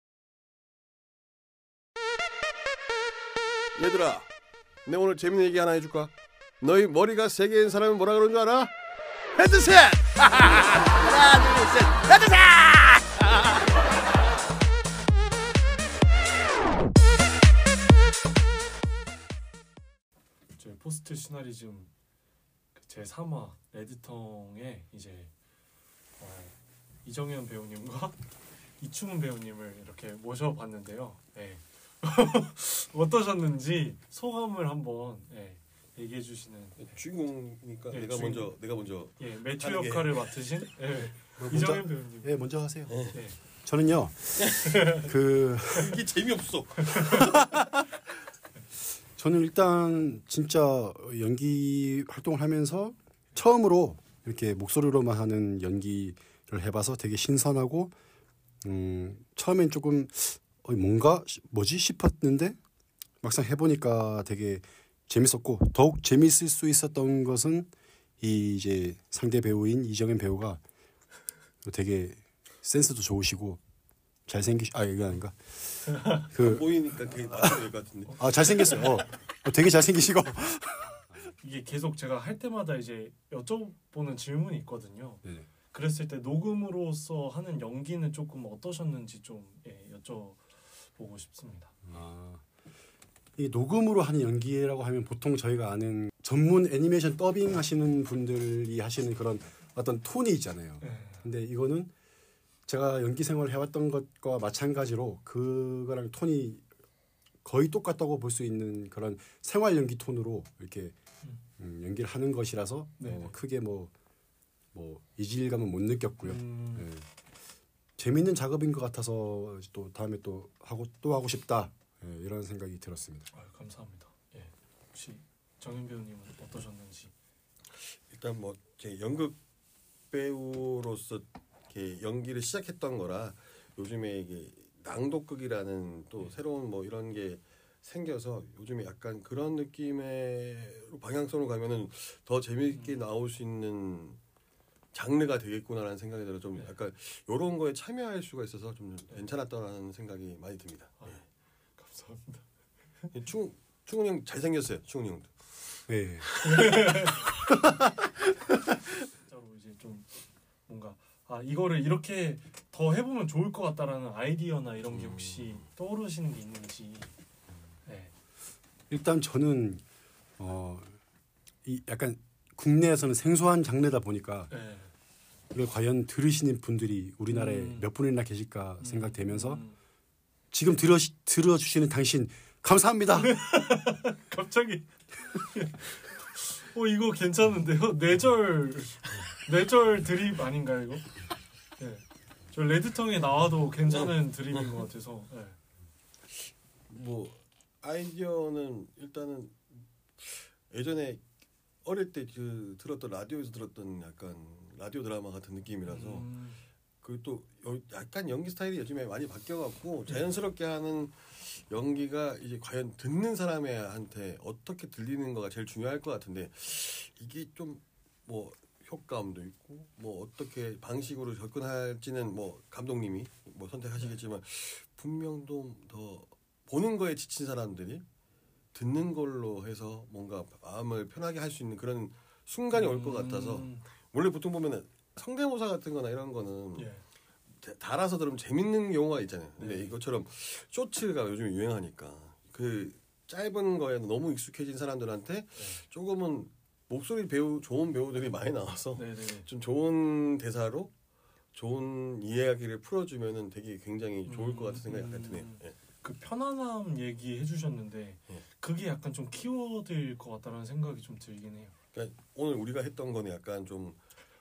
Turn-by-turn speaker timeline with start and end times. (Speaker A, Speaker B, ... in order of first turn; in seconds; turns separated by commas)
Speaker A: 3.8-4.3, Speaker A: 4.9-8.7, Speaker A: 9.4-13.7, Speaker B: 20.6-21.9, Speaker B: 22.8-25.3, Speaker B: 26.2-28.2, Speaker B: 28.8-37.0, Speaker A: 36.8-40.2, Speaker B: 37.9-38.5, Speaker B: 39.1-42.3, Speaker C: 41.4-43.0, Speaker A: 42.9-43.2, Speaker B: 43.1-43.4, Speaker C: 43.6-46.0, Speaker A: 44.4-44.9, Speaker A: 45.8-47.9, Speaker C: 49.2-57.9, Speaker C: 58.6-62.6, Speaker C: 63.2-70.6, Speaker C: 71.6-73.6, Speaker C: 74.3-81.3, Speaker B: 75.9-76.3, Speaker A: 76.3-78.9, Speaker B: 78.1-78.9, Speaker B: 81.2-91.7, Speaker C: 91.9-92.4, Speaker C: 93.4-101.9, Speaker B: 100.8-101.2, Speaker C: 102.7-106.6, Speaker C: 107.4-111.0, Speaker C: 111.6-113.9, Speaker B: 113.0-113.4, Speaker C: 114.7-117.1, Speaker B: 116.2-116.9, Speaker C: 118.0-123.3, Speaker B: 123.3-127.1, Speaker A: 127.7-129.4, Speaker A: 130.1-144.2, Speaker B: 142.7-143.1, Speaker A: 144.9-151.2, Speaker B: 151.8-152.5, Speaker A: 153.1-157.1, Speaker C: 155.9-156.3, Speaker B: 156.4-157.2, Speaker B: 159.1-167.1, Speaker A: 164.9-165.6, Speaker B: 167.9-168.1, Speaker C: 168.9-169.8, Speaker C: 170.4-171.0, Speaker C: 171.7-174.5, Speaker B: 174.5-174.9, Speaker C: 175.5-179.6, Speaker B: 177.3-177.9, Speaker B: 178.8-179.8, Speaker C: 180.5-183.4, Speaker B: 183.2-191.1, Speaker B: 191.8-195.6, Speaker A: 196.9-201.2, Speaker A: 201.8-206.3, Speaker B: 205.9-206.6, Speaker A: 207.0-228.1, Speaker A: 228.7-236.9, Speaker B: 232.7-233.9, Speaker B: 236.8-237.1, Speaker A: 237.6-250.9, Speaker B: 239.6-240.0, Speaker B: 248.9-249.5, Speaker A: 251.5-255.8, Speaker B: 254.3-261.8, Speaker A: 261.9-264.0